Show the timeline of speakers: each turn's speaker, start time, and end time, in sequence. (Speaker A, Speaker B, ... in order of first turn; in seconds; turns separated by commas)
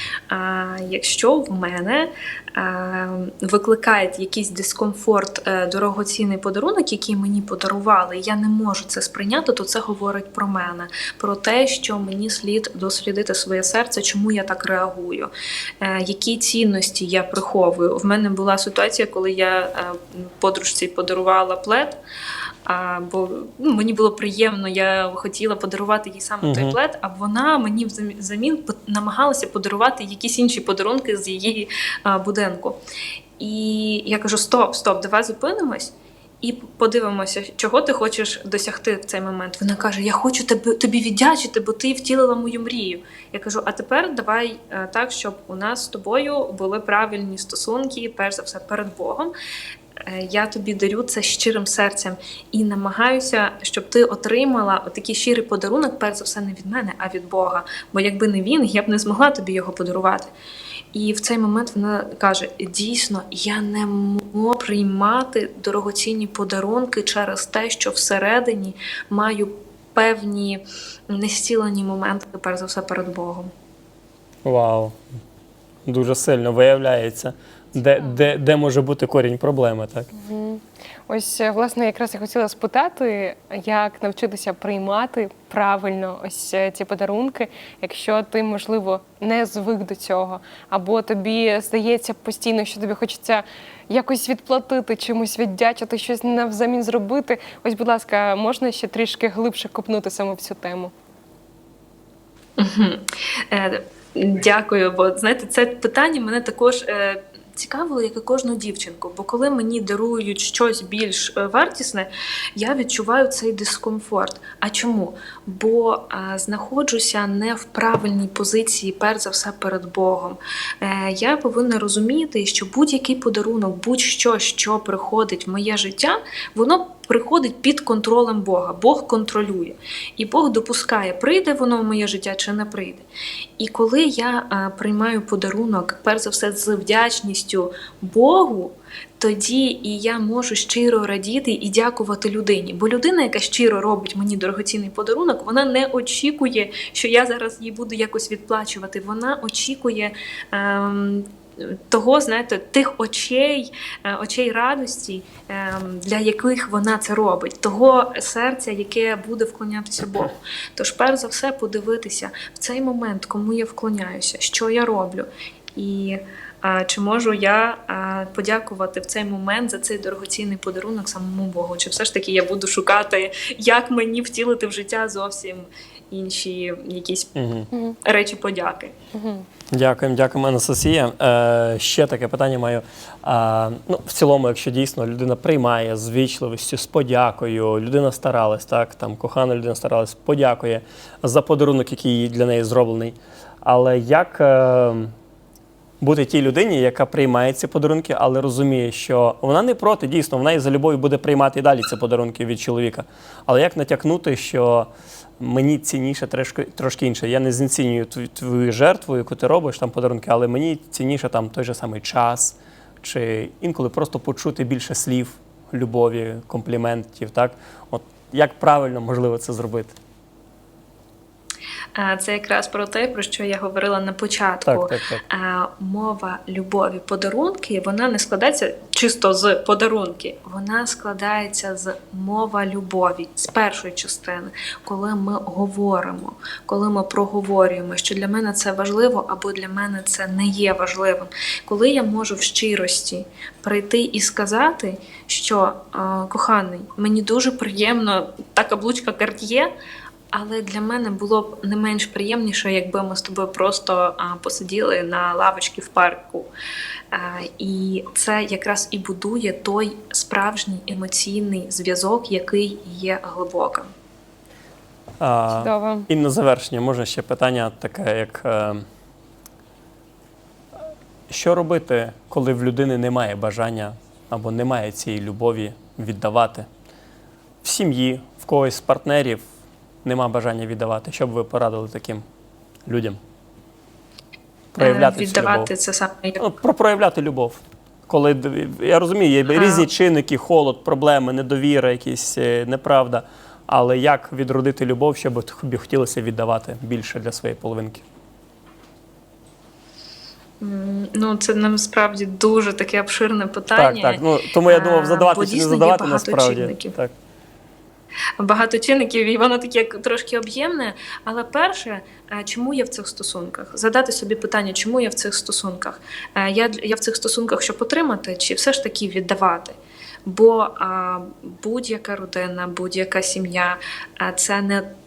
Speaker A: 0.3-22.0, Speaker A: 22.7-32.8, Speaker B: 26.4-26.8, Speaker A: 33.4-49.3, Speaker A: 50.0-60.3, Speaker A: 60.9-73.5, Speaker B: 74.5-75.0, Speaker B: 75.9-80.1, Speaker C: 80.1-100.9, Speaker A: 102.6-133.1, Speaker A: 133.6-177.3, Speaker B: 177.3-177.7, Speaker C: 177.7-178.0, Speaker A: 178.1-179.0, Speaker C: 179.1-179.5, Speaker B: 179.7-195.1, Speaker B: 196.0-220.0, Speaker A: 222.0-249.7, Speaker B: 224.7-225.2, Speaker A: 250.3-256.5, Speaker A: 257.1-263.9, Speaker B: 265.2-268.9, Speaker C: 265.5-266.1, Speaker B: 271.3-276.7, Speaker B: 277.6-279.4, Speaker B: 280.1-282.2, Speaker B: 282.9-283.2, Speaker B: 284.7-285.7, Speaker A: 284.8-286.4, Speaker B: 286.4-298.0, Speaker A: 289.5-289.9, Speaker A: 300.6-307.0, Speaker B: 303.8-307.1, Speaker A: 308.4-324.9